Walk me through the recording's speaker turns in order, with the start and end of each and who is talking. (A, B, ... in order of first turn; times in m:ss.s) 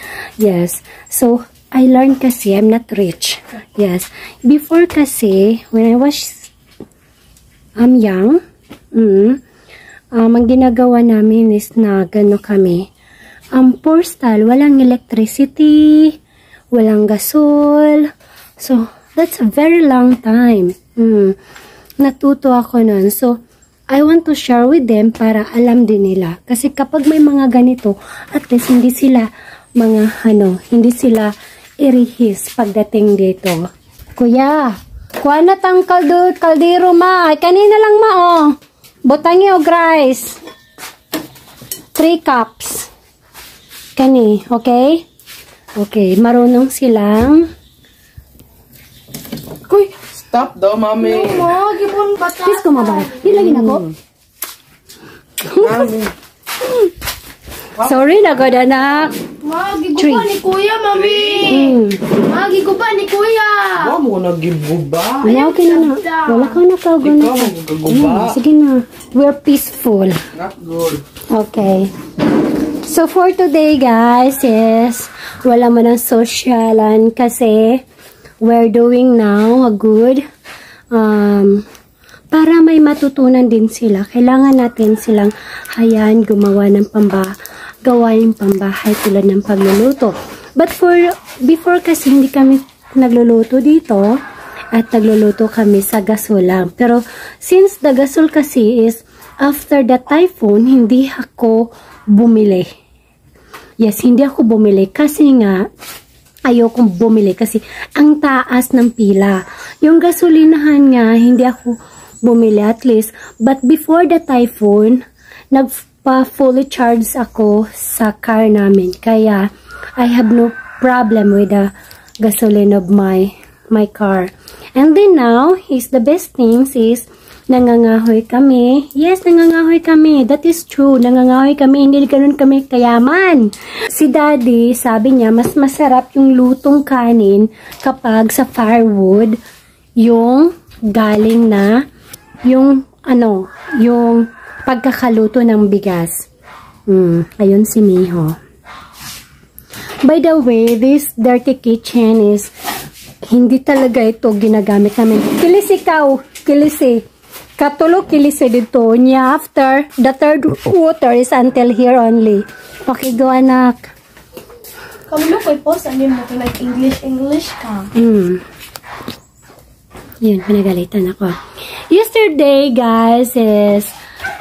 0:00.4-0:06.5 A
0:07.8-0:08.4 A
0:08.9-0:09.4 A
0:10.1-0:12.9 A
0:13.5-0:16.2 A
0:16.7-0:21.4 A
0:22.0-0:23.4 A
0:23.9-0:40.4 A
0:42.0-0:42.9 A
0:44.0-0:45.0 A
0:45.8-0:47.5 A
0:49.7-0:50.0 B
0:50.0-0:51.5 C
0:51.0-0:53.8 B
0:52.4-0:54.0 A
0:55.4-0:56.1 A
0:55.7-0:56.1 C
0:56.6-0:56.9 A
0:57.7-0:59.2 A
0:59.4-1:04.0 B
1:00.0-1:00.3 A
1:01.1-1:01.4 C
1:01.5-1:02.1 A
1:03.8-1:05.3 C
1:05.2-1:10.2 A
1:05.2-1:06.6 B
1:07.1-1:08.4 C
1:10.4-1:11.0 C
1:11.3-1:11.9 A
1:12.6-1:17.8 A
1:18.4-1:20.2 A
1:20.9-1:21.6 A
1:22.3-1:34.2 A
1:34.7-1:42.7 A
1:43.8-1:45.7 A
1:46.4-2:19.4 A
2:20.0-2:21.8 A
2:22.4-2:26.2 A
2:26.9-2:28.4 A
2:30.0-2:32.5 A
2:33.2-2:37.0 A
2:37.6-2:43.9 A
2:45.1-2:47.9 B
2:47.9-2:48.4 A
2:50.2-2:54.0 A